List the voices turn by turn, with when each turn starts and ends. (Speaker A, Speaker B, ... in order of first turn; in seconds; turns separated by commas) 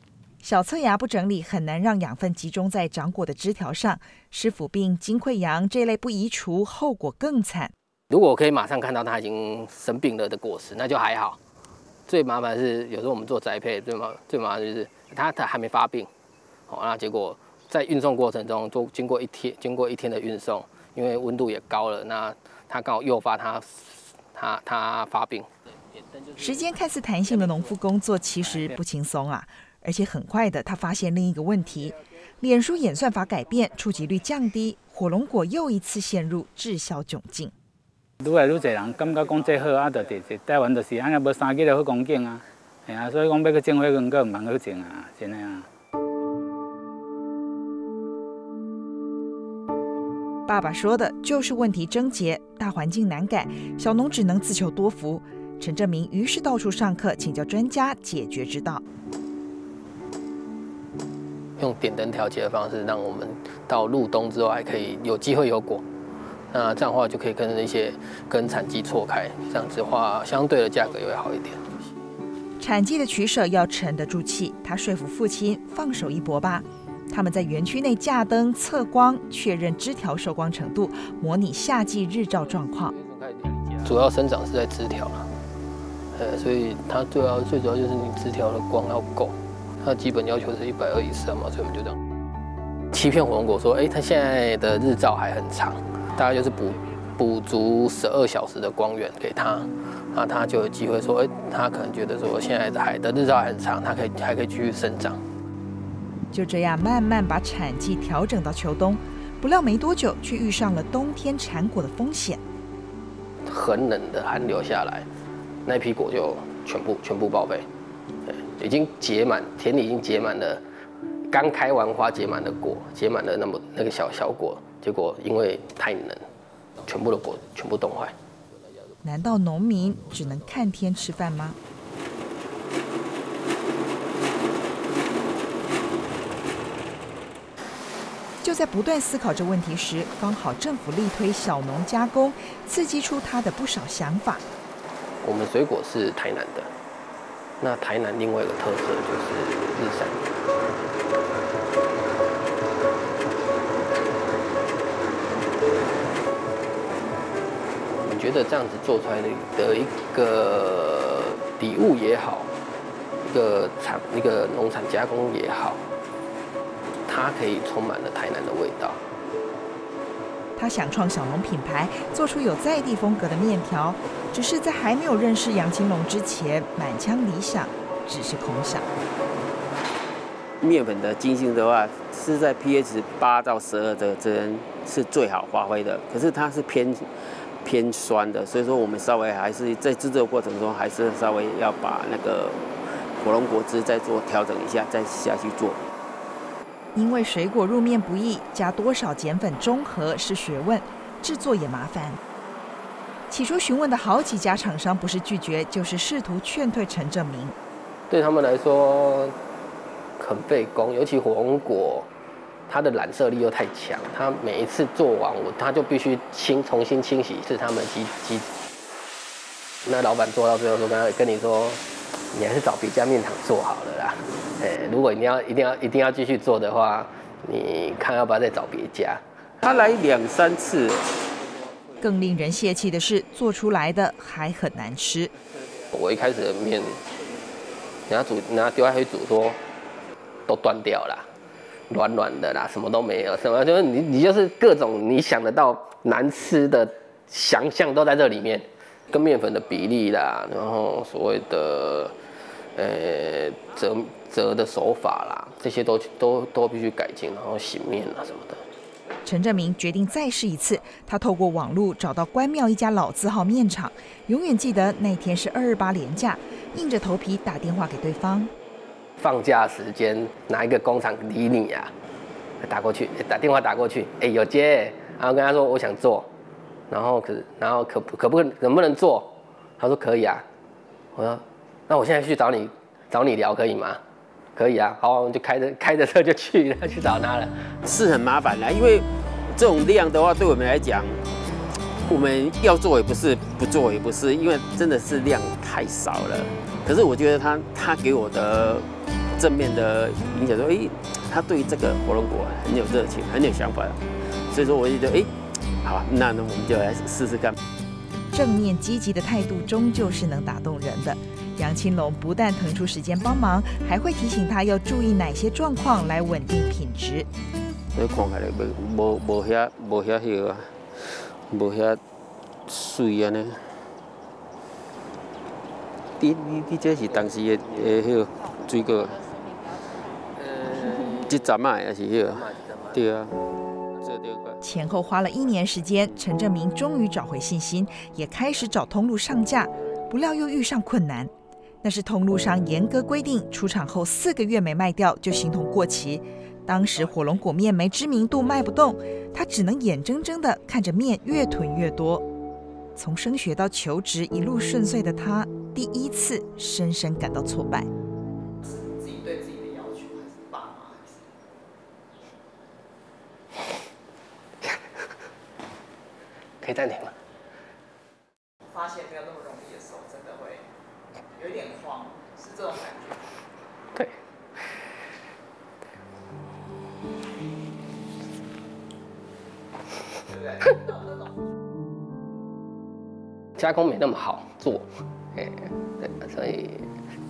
Speaker A: 0.4-7.7, Speaker B: 8.1-11.4, Speaker B: 12.1-16.1, Speaker B: 16.7-25.5, Speaker A: 26.4-37.5, Speaker C: 28.4-28.7, Speaker C: 38.2-45.7, Speaker A: 50.5-58.8, Speaker B: 61.6-65.8, Speaker B: 66.5-71.7, Speaker A: 72.6-82.9, Speaker B: 83.8-85.3, Speaker B: 86.1-92.0, Speaker B: 92.9-105.2, Speaker A: 106.3-112.4, Speaker B: 113.4-115.1, Speaker B: 115.7-117.7, Speaker B: 118.2-120.6, Speaker B: 121.3-126.3, Speaker B: 126.8-128.2, Speaker A: 129.0-131.6, Speaker A: 138.4-144.4, Speaker B: 145.2-146.7, Speaker B: 147.6-150.3, Speaker B: 157.9-162.5, Speaker B: 163.2-165.8, Speaker B: 167.1-169.0, Speaker A: 170.6-178.8, Speaker D: 180.6-195.8, Speaker A: 196.9-202.2, Speaker A: 203.3-207.6, Speaker B: 208.1-209.3, Speaker B: 210.2-212.1, Speaker B: 212.7-218.5, Speaker B: 219.8-229.2, Speaker D: 229.6-231.1, Speaker A: 232.0-235.3, Speaker B: 235.9-237.0, Speaker B: 238.1-239.6, Speaker B: 240.5-241.3, Speaker B: 241.9-252.1, Speaker B: 252.8-258.6, Speaker A: 259.2-268.5, Speaker B: 269.2-271.9, Speaker B: 272.6-276.3, Speaker B: 276.9-280.4, Speaker B: 281.1-284.0, Speaker B: 284.6-287.6, Speaker D: 287.8-291.2, Speaker D: 292.1-305.3, Speaker D: 305.8-307.5, Speaker A: 308.3-317.3, Speaker D: 317.9-322.0, Speaker D: 322.7-323.9, Speaker D: 326.2-329.3, Speaker B: 330.4-331.4, Speaker D: 331.2-334.6, Speaker B: 332.3-333.0, Speaker A: 334.6-341.3, Speaker A: 341.8-352.2, Speaker A: 352.9-357.9, Speaker E: 358.6-361.2, Speaker B: 366.6-367.1, Speaker E: 368.7-370.6, Speaker E: 371.4-373.2, Speaker B: 383.6-386.9